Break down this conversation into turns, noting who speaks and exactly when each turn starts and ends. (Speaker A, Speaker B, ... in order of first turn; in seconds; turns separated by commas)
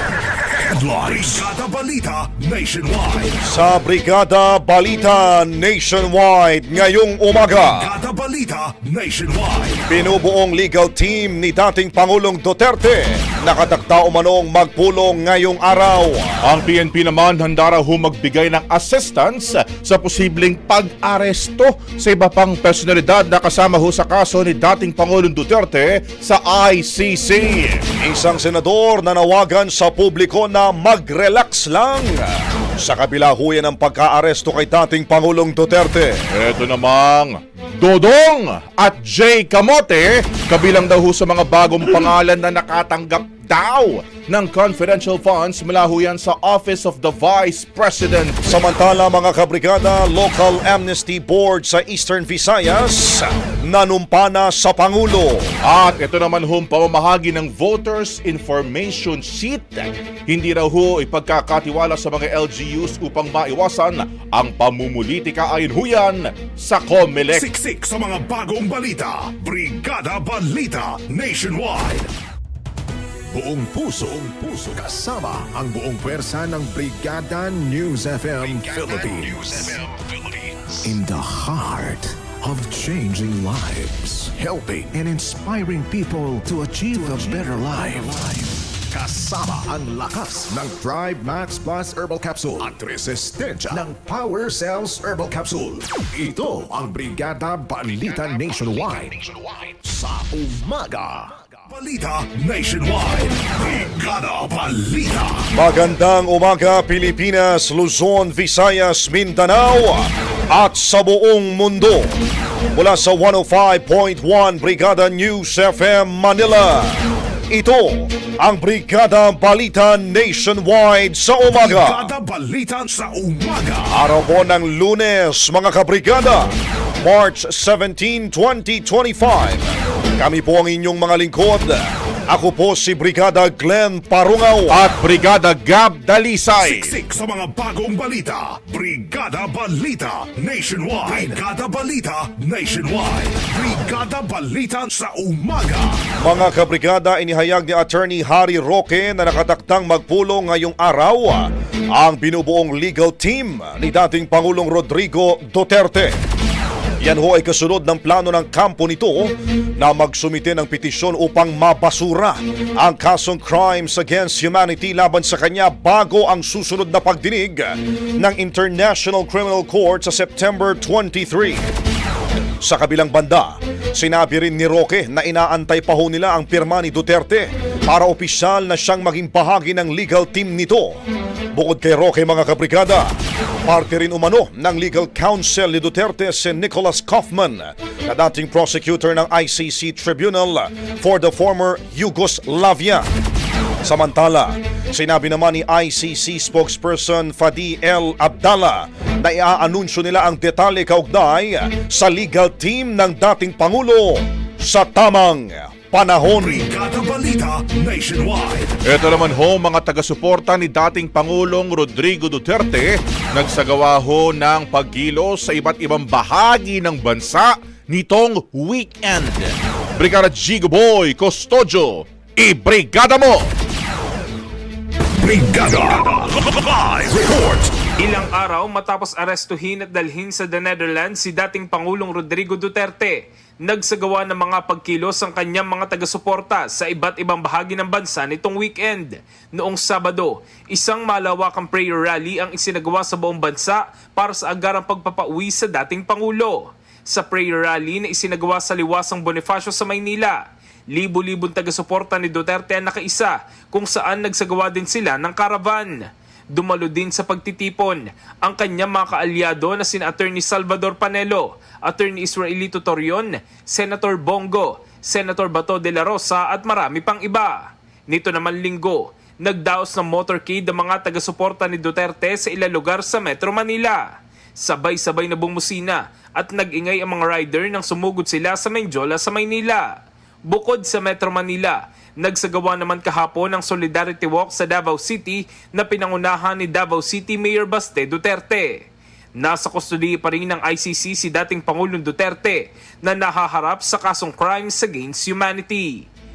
Speaker A: 0.3-3.4, Speaker B: 3.4-7.9, Speaker A: 7.7-9.9, Speaker B: 9.9-16.4, Speaker C: 16.4-27.8, Speaker B: 28.0-36.2, Speaker C: 36.3-48.5, Speaker B: 48.5-55.5, Speaker C: 55.6-67.5, Speaker A: 67.3-72.1, Speaker D: 73.3-99.3, Speaker D: 99.8-101.4, Speaker A: 101.7-105.5, Speaker B: 105.5-112.2, Speaker B: 112.7-117.0, Speaker B: 117.5-122.1, Speaker A: 121.5-123.9, Speaker B: 123.9-126.5, Speaker B: 127.0-134.9, Speaker C: 134.7-136.9, Speaker A: 136.6-146.0, Speaker B: 146.2-156.2, Speaker B: 157.0-171.6, Speaker B: 172.6-181.0, Speaker B: 181.5-183.1, Speaker B: 183.7-193.1, Speaker B: 193.8-206.7, Speaker A: 206.4-208.7, Speaker C: 208.8-223.5, Speaker A: 225.2-227.7, Speaker E: 228.0-250.4, Speaker E: 250.9-256.0, Speaker E: 256.6-274.1, Speaker E: 274.6-279.9, Speaker E: 280.5-288.8, Speaker E: 289.4-296.1